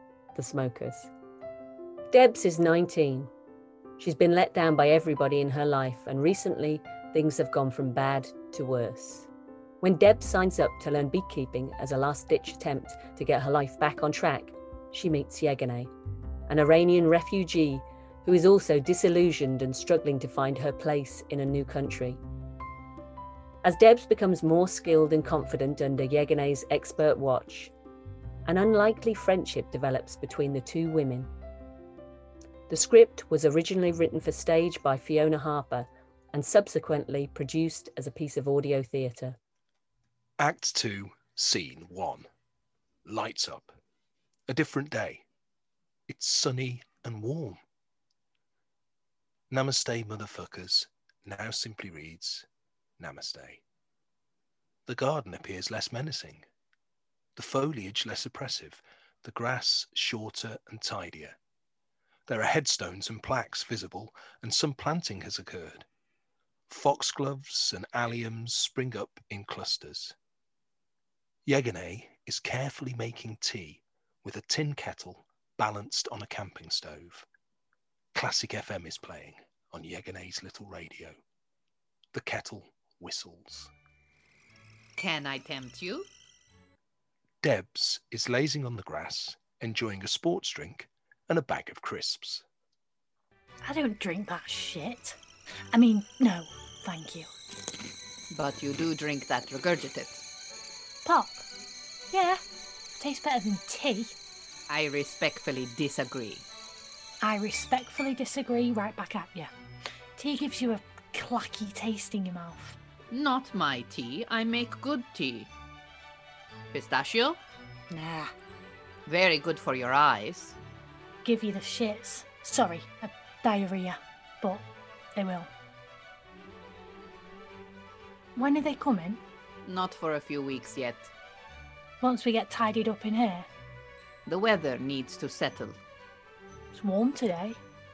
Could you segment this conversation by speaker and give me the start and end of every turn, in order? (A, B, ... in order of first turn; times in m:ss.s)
0:00.4-0:01.1 A
0:02.1-0:03.3 A
0:04.0-0:09.3 A
0:09.8-0:15.9 A
0:16.5-0:22.2 A
0:23.6-0:27.7 A
0:28.4-0:31.3 A
0:32.7-0:39.4 A
0:40.4-0:42.3 B
0:43.1-0:43.7 B
0:44.5-0:45.2 B
0:46.1-0:47.6 B
0:49.5-0:52.5 B
0:53.0-0:53.6 B
0:54.9-0:56.5 B
0:57.4-1:01.4 B
1:02.3-1:05.9 B
1:06.7-1:10.2 B
1:11.5-1:17.3 B
1:18.2-1:21.2 B
1:22.1-1:23.7 B
1:25.0-1:26.1 C
1:27.4-1:32.4 B
1:33.6-1:35.2 D
1:35.7-1:37.3 D
1:38.3-1:40.3 C
1:41.0-1:41.4 D
1:42.1-1:42.4 D
1:43.0-1:44.1 D
1:44.7-1:46.5 C
1:47.2-1:49.5 D
1:50.2-1:52.8 D
1:53.1-1:55.5 C
1:56.7-1:57.4 C
1:57.9-1:58.3 D
1:59.1-2:00.6 C
2:01.2-2:05.5 D
2:08.4-2:09.2 D
2:09.6-2:11.1 C
2:12.0-2:13.5 D
2:14.3-2:15.8 C
2:16.7-2:17.6 D